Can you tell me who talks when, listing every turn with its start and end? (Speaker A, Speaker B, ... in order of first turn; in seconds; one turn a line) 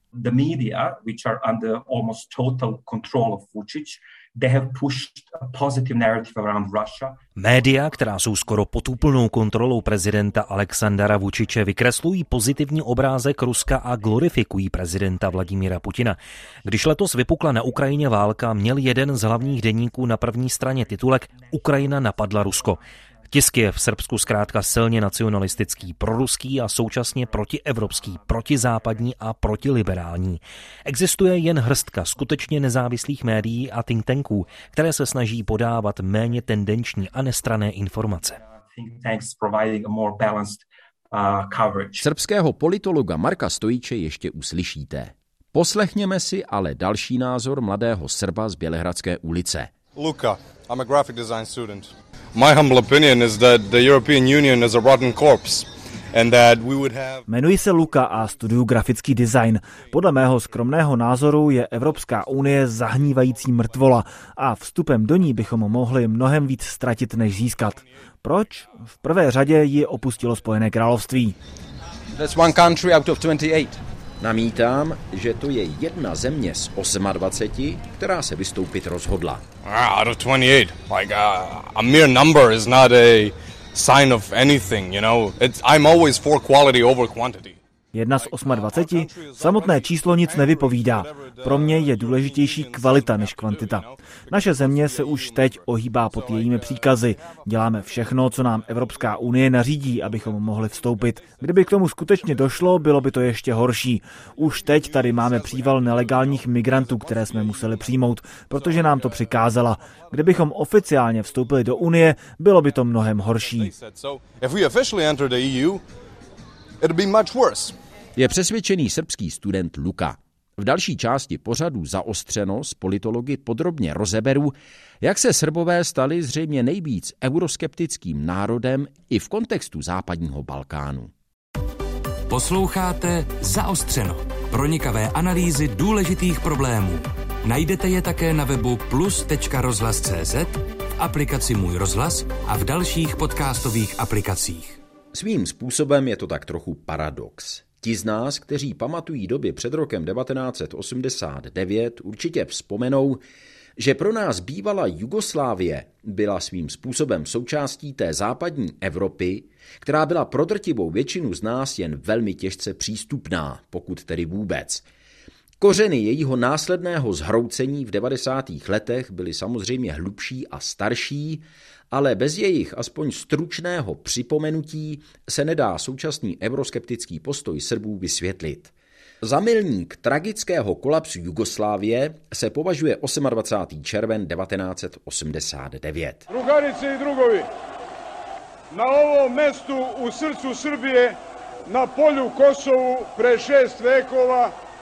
Speaker A: 0.1-7.2
Speaker B: 7.4-38.4
Speaker A: 38.7-42.0
Speaker C: 42.0-49.7
Speaker D: 49.9-57.2
Speaker E: 57.3-71.3
Speaker C: 72.1-79.4
Speaker D: 79.6-87.6
Speaker E: 87.9-113.7
Speaker D: 88.1-97.1
Speaker D: 100.1-100.4
Speaker D: 104.6-107.9
Speaker D: 108.5-109.4
Speaker D: 113.5-115.8
Speaker D: 116.8-117.8
Speaker C: 118.2-131.1
Speaker F: 132.3-144.8
Speaker C: 145.1-153.2
Speaker C: 153.8-164.8
Speaker C: 165.6-186.2
Speaker G: 186.3-187.4
Speaker G: 188.7-191.1
Speaker G: 191.7-194.5